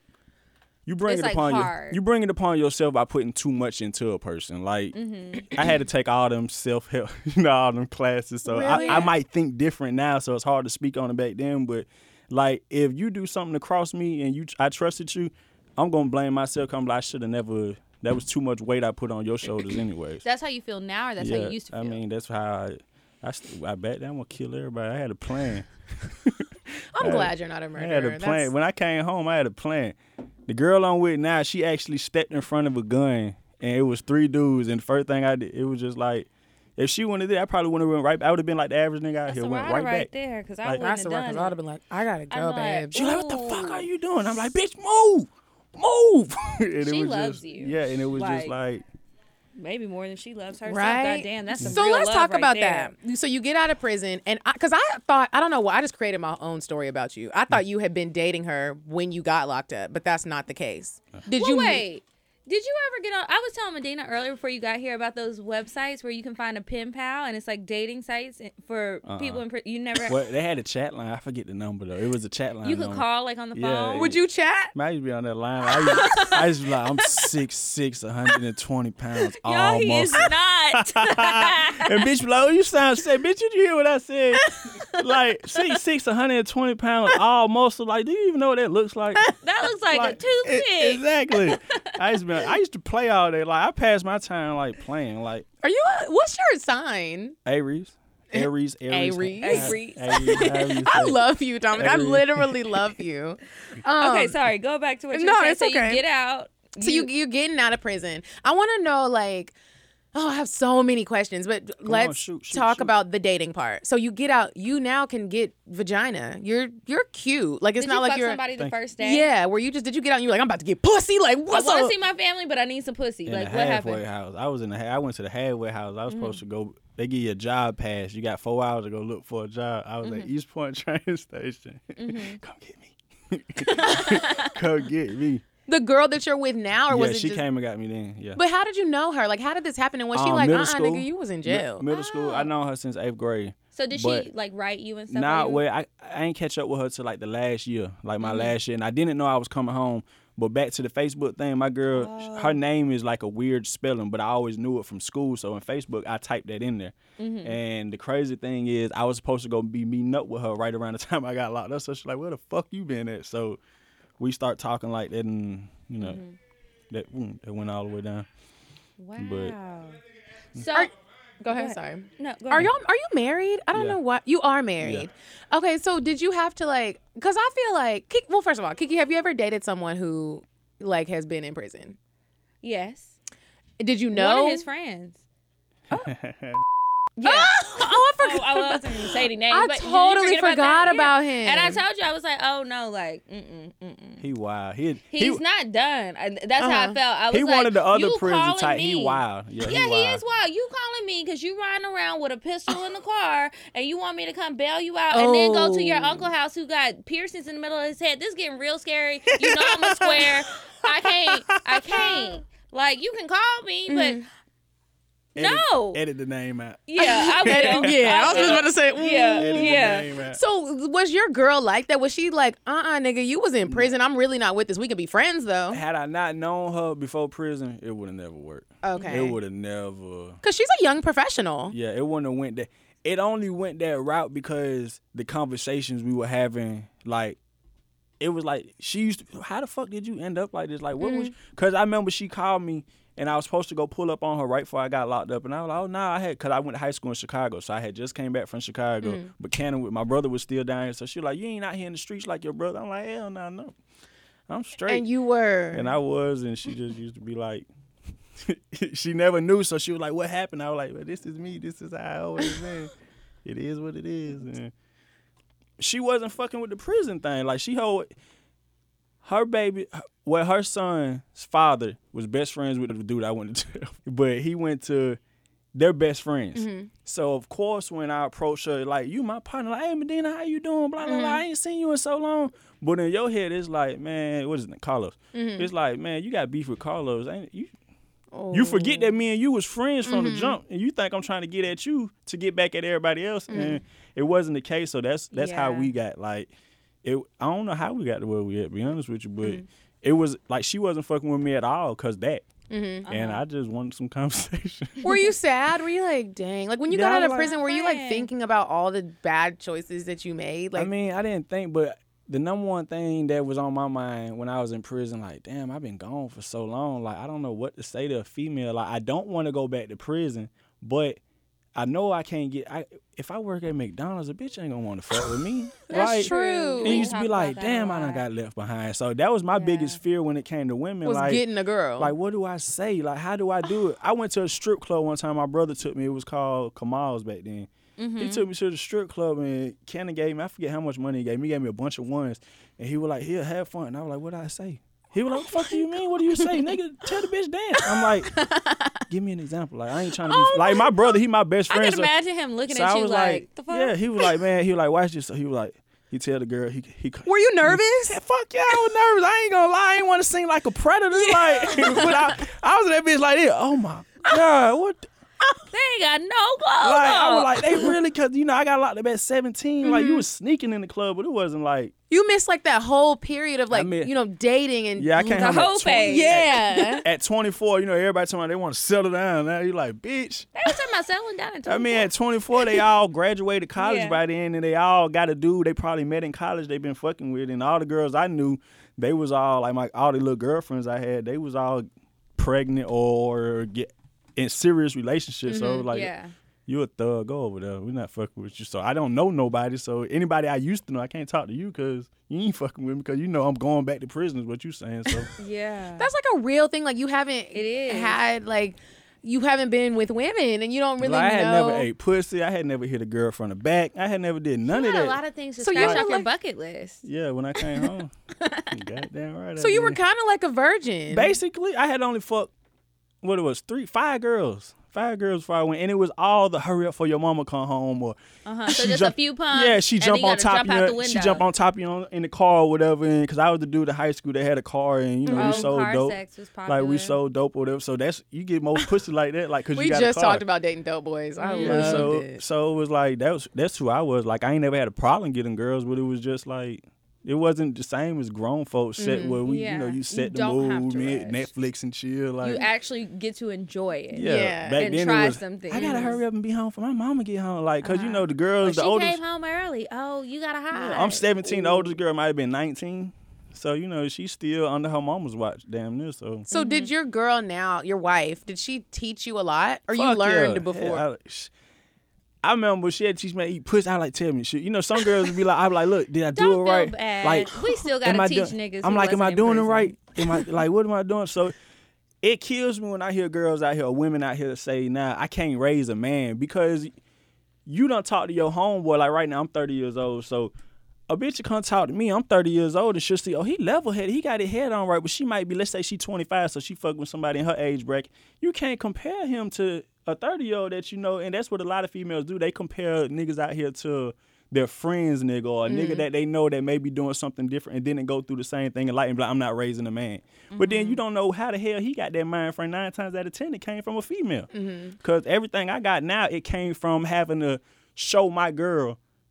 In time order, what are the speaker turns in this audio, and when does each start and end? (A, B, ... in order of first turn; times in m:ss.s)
0:00.9-0:20.2 A
0:01.1-0:02.0 B
0:04.9-0:05.6 B
0:08.5-0:09.1 C
0:08.6-0:09.1 B
0:20.2-0:22.0 B
0:21.2-0:30.0 A
0:27.0-0:28.5 C
0:30.5-0:40.1 A
0:39.3-0:41.6 B
0:40.8-0:43.0 C
0:42.3-0:43.8 B
0:42.9-0:48.8 A
0:46.8-0:48.5 B
0:49.6-0:52.9 B
0:50.7-1:01.8 C
1:01.3-1:10.2 B
1:09.0-1:09.4 A
1:10.0-1:29.3 A
1:12.6-1:14.1 B
1:14.0-1:14.7 C
1:16.0-1:16.4 B
1:19.4-1:22.0 B
1:24.5-1:24.7 C
1:29.4-1:31.0 B
1:29.9-1:35.5 A
1:35.6-1:37.4 C
1:37.5-1:41.2 A
1:38.3-1:44.4 C
1:39.4-1:40.5 B
1:41.8-1:42.7 A
1:44.0-1:47.1 B
1:45.1-1:46.0 C
1:46.8-1:49.5 C
1:50.1-1:58.4 C
1:51.8-1:52.9 A
1:57.8-1:59.3 B
1:59.0-2:01.9 C
2:01.5-2:04.0 B
2:03.3-2:15.4 A
2:06.1-2:06.4 B
2:10.0-2:10.3 B
2:12.0-2:12.4 B
2:13.6-2:14.6 B
2:15.7-2:17.4 C
2:16.9-2:18.4 A
2:18.4-2:21.9 C
2:20.1-2:24.3 A
2:21.9-2:22.5 B
2:23.8-2:25.6 B
2:25.1-2:43.6 A
2:28.2-2:28.5 B
2:31.9-2:32.6 B
2:37.2-2:37.6 B
2:44.2-2:46.2 A
2:46.0-2:46.4 B
2:46.9-2:48.3 A
2:49.0-2:50.0 B
2:49.2-2:49.6 A
2:50.6-2:50.9 B
2:50.7-3:02.0 C
2:51.5-2:52.7 B
2:53.7-2:54.0 A
2:54.8-2:55.1 A
3:02.6-3:03.1 B
3:03.8-3:04.6 C
3:04.1-3:05.2 B
3:06.0-3:06.6 A
3:07.2-3:14.2 B
3:07.2-3:11.8 C
3:14.2-3:15.4 A
3:15.1-3:34.3 B
3:16.6-3:17.0 C
3:17.3-3:20.2 A
3:25.1-3:26.3 C
3:29.3-3:32.2 A
3:33.9-3:34.3 C
3:35.4-3:38.7 A
3:35.4-3:36.0 B
3:36.9-3:40.1 B
3:37.0-3:45.8 C
3:39.4-3:40.4 A
3:43.6-3:44.0 A
3:45.7-3:50.4 A
3:48.8-3:49.4 C
3:50.4-3:51.8 C
3:51.7-3:57.4 A
3:58.2-4:13.8 A
4:01.0-4:01.3 C
4:09.0-4:09.3 C
4:14.5-4:15.1 A
4:14.9-4:15.9 C
4:15.7-4:17.7 A
4:18.4-4:22.9 A
4:23.4-4:24.7 A
4:25.8-4:28.1 A
4:29.2-4:35.2 A
4:35.8-4:47.7 A
4:36.6-4:36.9 C
4:41.0-4:41.4 C
4:45.3-4:45.7 C
4:48.3-4:49.1 C
4:48.5-4:56.5 A
4:50.1-4:50.6 C
4:53.5-4:53.8 C
4:55.3-4:55.9 B
4:57.0-5:02.4 A
5:02.7-5:03.1 C
5:03.1-5:03.4 B
5:03.1-5:05.1 A
5:05.0-5:10.9 C
5:06.9-5:07.5 A
5:07.1-5:08.3 B
5:10.8-5:21.2 A
5:21.8-5:31.4 A
5:25.9-5:27.1 C
5:25.9-5:28.2 B
5:29.5-5:30.0 B
5:31.0-5:32.1 C
5:32.0-5:48.4 A
5:38.0-5:38.4 B
5:48.0-5:48.8 C
5:49.1-5:52.1 A
5:50.3-5:50.9 C
5:51.7-5:54.0 B
5:52.7-6:05.1 A
5:57.3-5:58.2 C
6:01.2-6:02.3 C
6:05.7-6:07.8 B
6:06.8-6:11.9 A
6:09.8-6:10.2 C
6:12.1-6:15.4 C
6:13.7-6:14.1 A
6:15.0-6:20.6 A
6:15.2-6:17.0 B
6:16.0-6:17.0 C
6:20.6-6:22.1 B
6:21.7-6:36.1 A
6:23.8-6:24.2 B
6:35.5-6:35.9 C
6:35.9-6:36.3 B
6:36.7-6:45.3 A
6:45.4-6:46.1 B
6:46.0-6:51.9 C
6:47.5-6:48.2 B
6:51.0-6:55.2 A
6:54.7-6:57.0 B
6:55.6-6:56.3 C
6:55.7-6:56.0 A
6:57.0-6:58.1 A
6:58.7-7:00.0 A
6:59.6-7:01.4 C
7:01.1-7:02.5 A
7:03.2-7:08.2 A
7:08.5-7:11.4 B
7:08.7-7:20.4 A
7:15.3-7:15.7 C
7:15.3-7:17.2 B
7:19.8-7:22.4 C
7:21.4-7:22.1 B
7:21.6-7:32.7 A
7:29.0-7:29.4 C
7:29.4-7:31.5 B
7:32.4-7:36.2 B
7:34.1-7:39.2 A
7:34.2-7:34.9 C
7:35.8-7:36.2 C
7:37.8-7:41.3 B
7:40.7-7:46.5 A
7:41.4-7:41.8 C
7:46.5-7:51.0 C
7:46.5-7:46.9 B
7:49.9-7:51.5 A
7:52.4-8:01.5 A
7:56.3-8:00.4 B
8:02.2-8:06.9 A
8:07.7-8:10.5 A
8:11.1-8:34.5 A
8:25.7-8:26.0 C
8:30.5-8:31.0 B
8:34.5-8:35.0 C
8:35.0-8:39.0 A